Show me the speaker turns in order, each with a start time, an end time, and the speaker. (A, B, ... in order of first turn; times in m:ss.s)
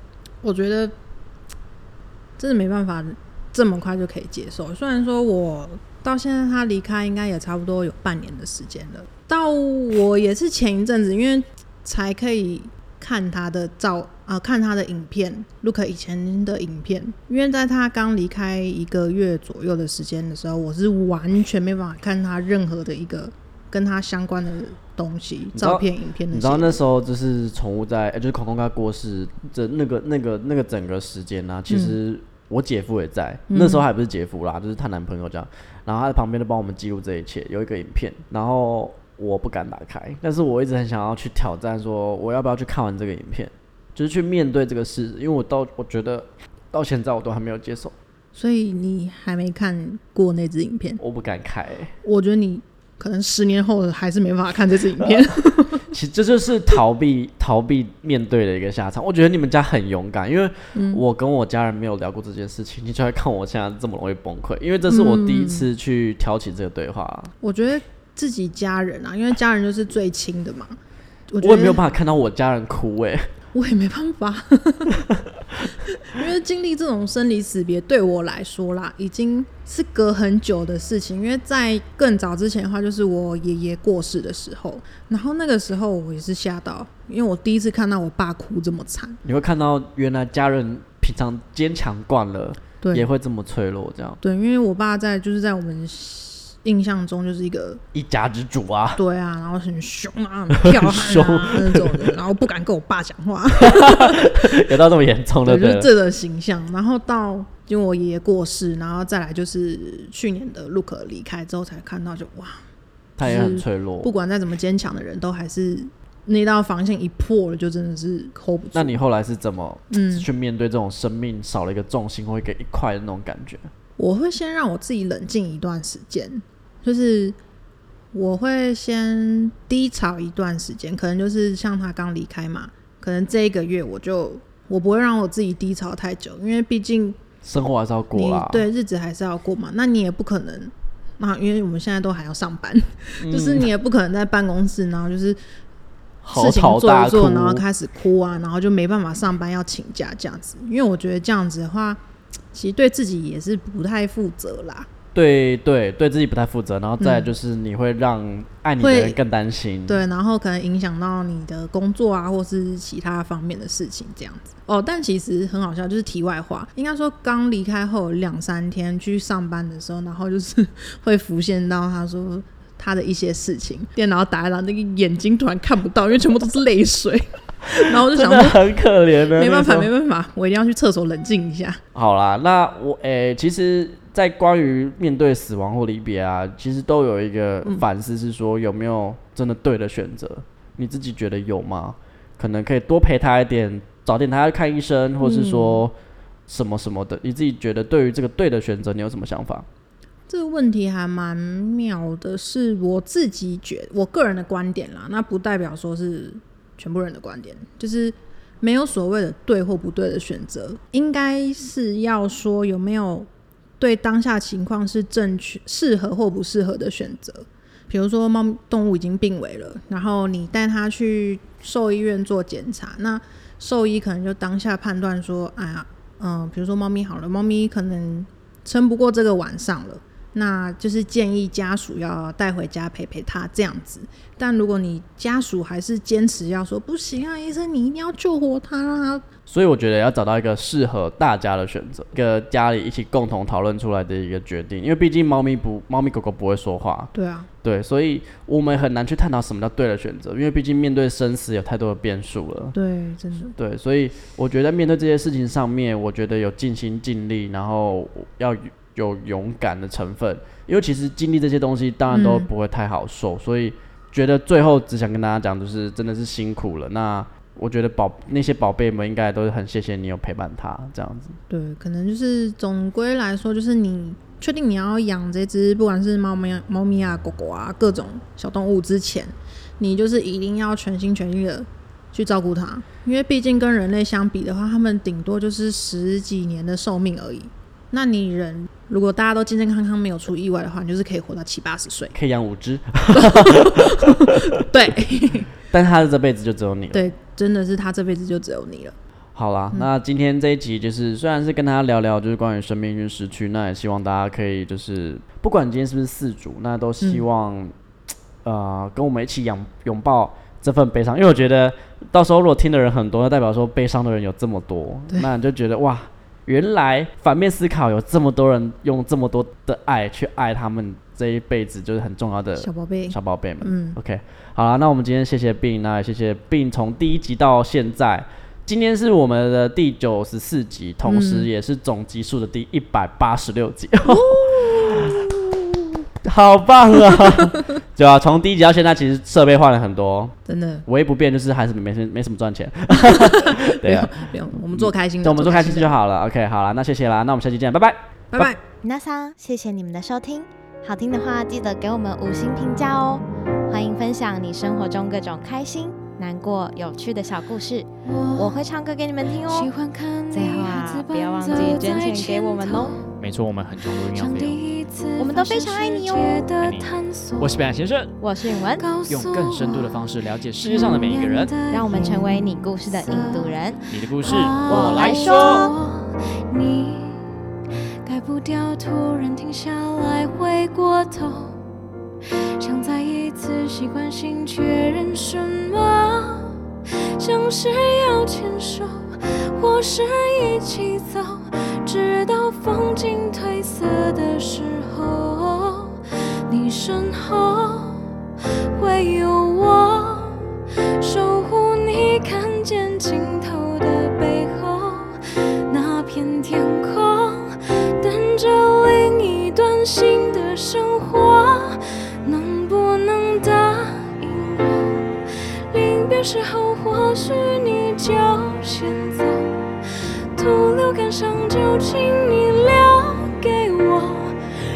0:00.4-0:00.9 A
0:02.4-0:26.8 A
0:25.5-0:47.9 B
0:31.7-0:31.9 A
0:33.5-0:33.9 A
0:48.3-0:51.0 A
0:51.0-0:51.9 B
0:52.0-0:55.8 A
0:55.9-1:07.3 B
1:00.7-1:01.0 A
1:04.9-1:05.7 A
1:07.4-1:10.8 A
1:11.3-1:11.8 A
1:11.4-1:13.3 B
1:13.5-1:15.0 A
1:15.9-1:29.2 A
1:29.2-1:34.2 B
1:32.8-1:33.1 A
1:34.2-1:37.8 A
1:37.9-1:39.0 B
1:39.0-1:44.4 A
1:40.6-1:42.1 B
1:43.6-1:45.9 B
1:45.4-1:52.6 A
1:53.2-1:54.1 B
1:53.2-1:59.0 A
1:58.7-2:03.7 B
1:59.9-2:00.3 A
2:04.0-2:07.4 A
2:08.1-2:17.2 A
2:17.4-2:18.6 B
2:18.1-2:25.4 A
2:23.2-2:23.7 B
2:26.2-2:27.6 B
2:26.3-2:32.0 A
2:32.5-2:34.9 A
2:35.1-2:40.0 B
2:37.0-2:37.3 A
2:38.8-2:39.2 A
2:39.9-2:58.7 A
2:57.9-2:59.9 B
2:59.3-3:01.8 A
3:01.9-3:15.9 B
3:15.2-3:15.8 A
3:16.5-3:19.6 B
3:20.3-3:33.3 A
3:33.8-3:59.2 A
3:59.5-4:07.1 B
4:07.1-4:07.5 A
4:07.6-4:12.7 B
4:12.7-4:13.5 A
4:13.6-4:31.4 B
4:22.1-4:22.5 A
4:31.5-4:52.1 A
4:52.1-4:54.4 B
4:53.1-4:55.5 A
4:55.7-4:57.0 B
4:56.9-4:58.9 A
4:59.3-5:07.7 B
5:08.4-5:35.2 B
5:22.6-5:24.0 A
5:31.0-5:31.5 A
5:34.0-5:35.3 A
5:36.2-5:40.3 B
5:40.4-5:40.8 A
5:40.9-5:44.2 B
5:42.9-5:45.9 A
5:44.7-5:48.5 B
5:48.3-5:48.6 A
5:48.7-5:59.7 C
5:58.0-5:58.6 D
5:59.5-6:03.1 D
6:00.3-6:03.0 C
6:03.2-6:04.6 E
6:03.9-6:07.6 D
6:05.2-6:06.5 C
6:06.6-6:08.1 E
6:08.2-6:08.9 C
6:08.8-6:10.1 D
6:09.0-6:11.6 E
6:10.6-6:17.2 D
6:11.7-6:15.7 C
6:13.9-6:15.6 E
6:14.7-6:15.6 B
6:18.0-6:21.6 D
6:22.6-6:26.5 D
6:27.1-6:38.1 D
6:38.7-6:40.4 D
6:41.0-6:59.7 D
7:00.3-7:04.4 D